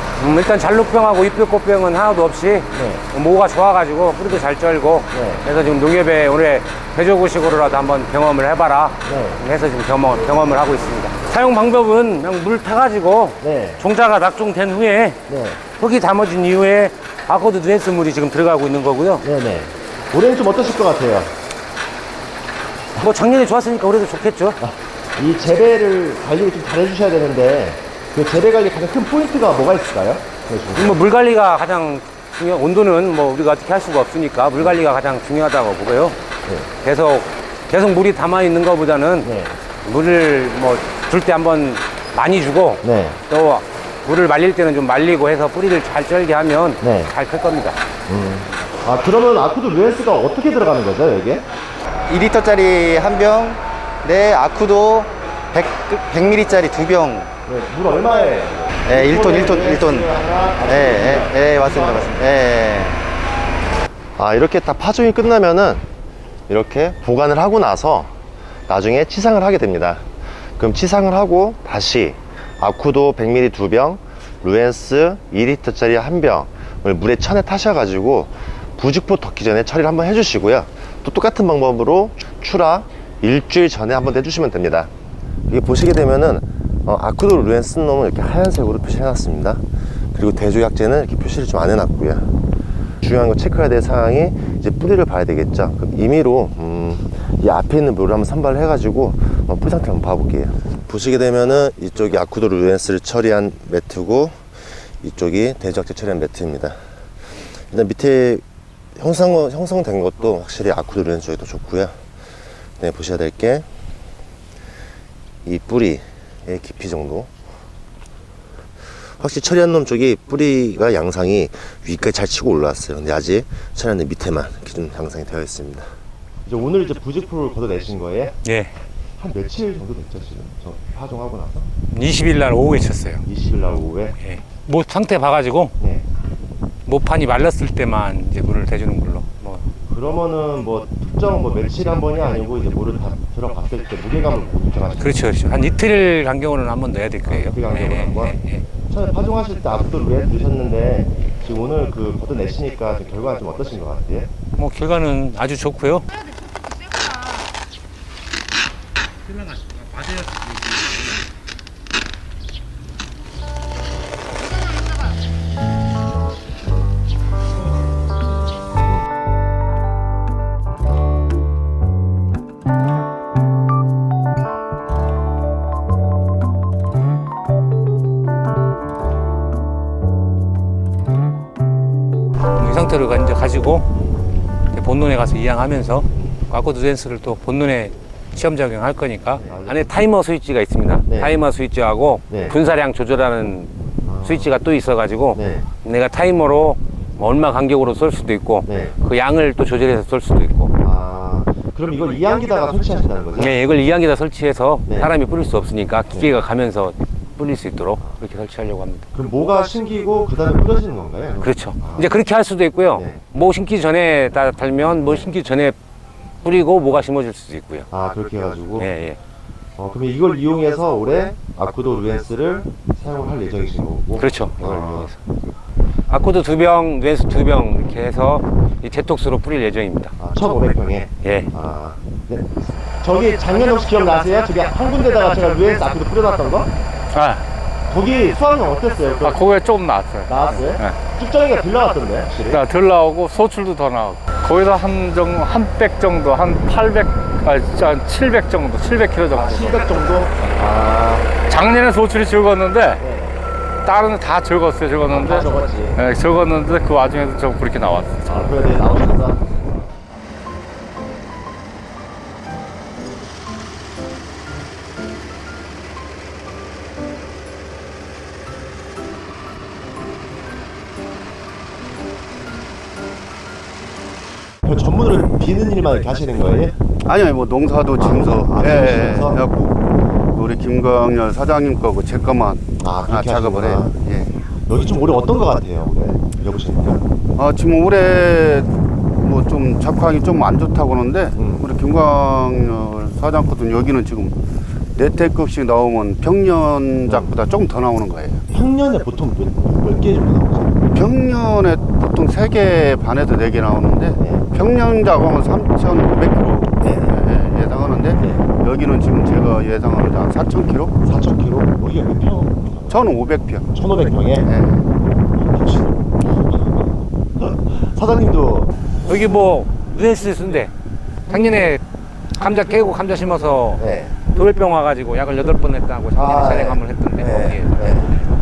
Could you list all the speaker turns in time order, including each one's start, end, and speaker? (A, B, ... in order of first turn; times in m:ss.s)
0:00.2-0:19.3 A
0:02.7-0:03.0 B
0:05.1-0:05.4 B
0:09.0-0:09.4 B
0:13.4-0:13.8 B
0:15.3-0:15.6 B
0:19.2-0:21.3 B
0:23.0-0:24.6 A
0:24.6-0:31.0 B
0:30.8-0:36.2 A
0:36.8-0:39.3 A
0:39.2-0:39.6 B
0:39.8-0:47.8 A
0:42.8-0:43.2 B
0:46.8-0:47.1 B
0:48.1-0:51.5 B
0:52.1-0:57.3 C
0:57.5-1:02.3 B
0:58.8-1:03.0 C
1:04.2-1:05.8 B
1:06.5-1:08.2 B
1:08.7-1:24.9 B
1:25.5-1:29.6 B
1:30.2-1:32.4 B
1:33.0-1:44.4 B
1:45.0-1:46.8 B
1:47.7-1:48.4 B
1:49.0-1:52.0 B
1:52.8-1:53.6 B
1:55.4-1:57.3 B
1:59.2-2:05.9 B
2:06.4-2:08.4 B
2:08.4-2:08.7 A
2:09.2-2:11.7 B
2:11.9-2:13.2 A
2:13.3-2:14.2 B
2:14.2-2:15.8 A
2:15.8-2:16.0 B
2:16.9-2:19.7 A
2:19.9-2:25.1 B
2:25.0-2:28.6 A
2:27.3-2:34.3 B
2:34.6-2:36.1 A
3:02.6-3:03.9 A
3:04.0-3:04.4 B
3:04.7-3:20.8 A
3:06.1-3:06.4 B
3:09.4-3:09.9 B
3:11.1-3:11.4 B
3:12.3-3:12.6 B
3:14.0-3:14.5 B
3:15.3-3:15.7 B
3:18.6-3:19.0 B
3:20.8-3:23.6 B
3:23.4-3:29.1 A
3:24.9-3:25.1 B
3:29.1-3:32.1 B
3:31.4-3:35.8 A
3:32.9-3:33.2 B
3:35.0-3:35.3 B
3:36.4-3:37.9 A
3:37.9-3:38.9 B
3:38.8-3:39.2 A
3:39.8-3:45.1 B
3:44.2-3:45.2 A
3:46.1-3:50.2 A
3:50.2-3:56.7 B
3:51.2-3:51.5 A
3:57.9-3:59.4 B
3:59.2-4:01.0 D
4:00.3-4:02.7 B
4:02.4-4:09.9 D
4:09.3-4:11.3 B
4:11.5-4:13.0 D
4:13.0-4:13.4 B
4:13.8-4:18.6 D
4:15.1-4:16.0 B
4:18.2-4:19.9 B
4:34.6-4:36.7 B
4:37.0-4:39.8 E
4:38.0-4:39.5 B
4:40.3-4:44.3 E
4:42.8-4:43.9 B
4:44.7-4:47.0 B
4:47.4-4:48.7 E
4:49.2-4:54.4 E
4:51.4-4:51.7 B
4:55.0-4:58.4 E
4:57.1-4:57.3 B
4:58.5-5:00.8 B
5:00.9-5:10.9 E
5:04.2-5:04.4 B
5:06.8-5:07.2 B
5:08.2-5:08.4 B
5:11.0-5:13.0 B
5:12.9-5:13.7 E
5:13.7-5:14.5 B
5:14.4-5:14.8 E
5:15.4-5:18.8 B
5:19.0-5:20.7 A
5:21.3-5:21.8 A
5:22.4-5:28.3 A
5:23.8-5:24.2 B
5:26.1-5:28.1 B